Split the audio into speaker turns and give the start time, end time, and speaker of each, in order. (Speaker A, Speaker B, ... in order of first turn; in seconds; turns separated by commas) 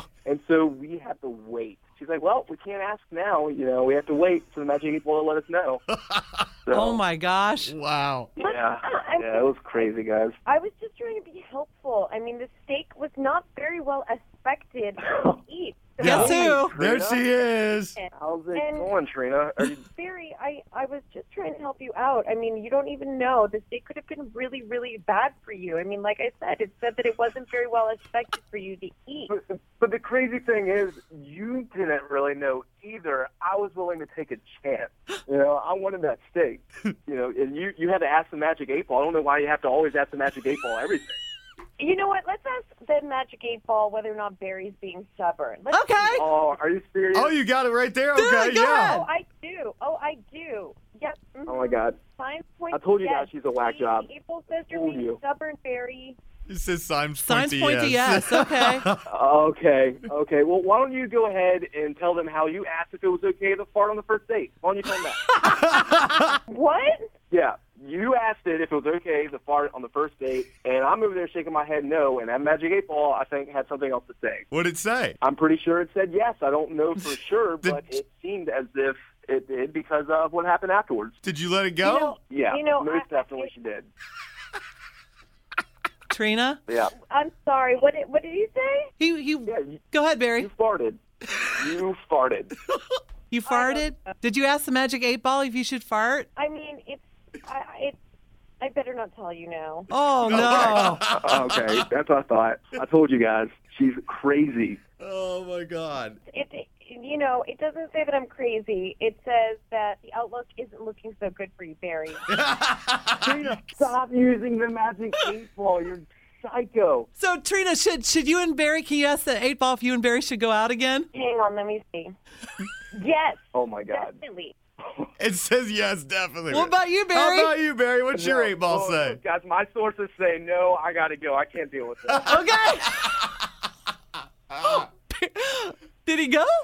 Speaker A: 0.2-5.8, Speaker B: 6.1-6.5, Speaker A: 6.7-7.0, Speaker C: 6.7-7.7, Speaker B: 7.7-8.3, Speaker D: 8.4-9.5, Speaker A: 8.4-10.4, Speaker D: 10.5-16.6, Speaker C: 16.0-16.7, Speaker B: 16.0-18.0, Speaker A: 16.1-17.2, Speaker D: 17.9-18.9, Speaker A: 18.1-19.8, Speaker D: 19.8-29.3, Speaker A: 29.3-41.2, Speaker D: 41.8-46.5, Speaker C: 45.7-46.2, Speaker A: 46.1-47.4, Speaker B: 47.1-49.0, Speaker C: 48.2-49.1, Speaker D: 48.9-56.2, Speaker A: 51.5-52.0, Speaker A: 52.7-54.1, Speaker A: 54.7-55.2, Speaker B: 56.5-59.0, Speaker C: 57.2-58.9, Speaker A: 59.1-65.2, Speaker B: 65.3-66.3, Speaker D: 66.5-67.1, Speaker A: 67.3-74.5, Speaker B: 74.5-75.2, Speaker A: 75.2-81.2, Speaker B: 81.2-82.2, Speaker D: 81.8-83.5, Speaker A: 82.3-83.9, Speaker C: 86.1-86.6, Speaker A: 86.7-86.9, Speaker D: 87.0-88.9, Speaker C: 89.0-90.5, Speaker A: 89.5-89.8, Speaker A: 90.4-91.0, Speaker A: 91.5-92.5, Speaker C: 93.3-96.3, Speaker D: 93.5-94.2, Speaker D: 96.4-98.0, Speaker D: 98.6-99.9, Speaker C: 99.9-101.0, Speaker B: 100.2-101.8, Speaker A: 100.3-104.8, Speaker B: 105.0-106.2, Speaker D: 106.3-112.3, Speaker B: 112.3-113.6, Speaker A: 113.2-117.1, Speaker C: 117.2-121.1, Speaker D: 121.1-122.1, Speaker D: 122.9-124.5, Speaker A: 123.5-124.2, Speaker A: 124.8-125.1, Speaker B: 125.2-129.2, Speaker C: 126.5-127.5, Speaker A: 128.1-132.3, Speaker B: 132.1-132.4, Speaker C: 132.3-133.1, Speaker B: 133.0-133.4, Speaker B: 134.5-134.9, Speaker C: 134.6-136.5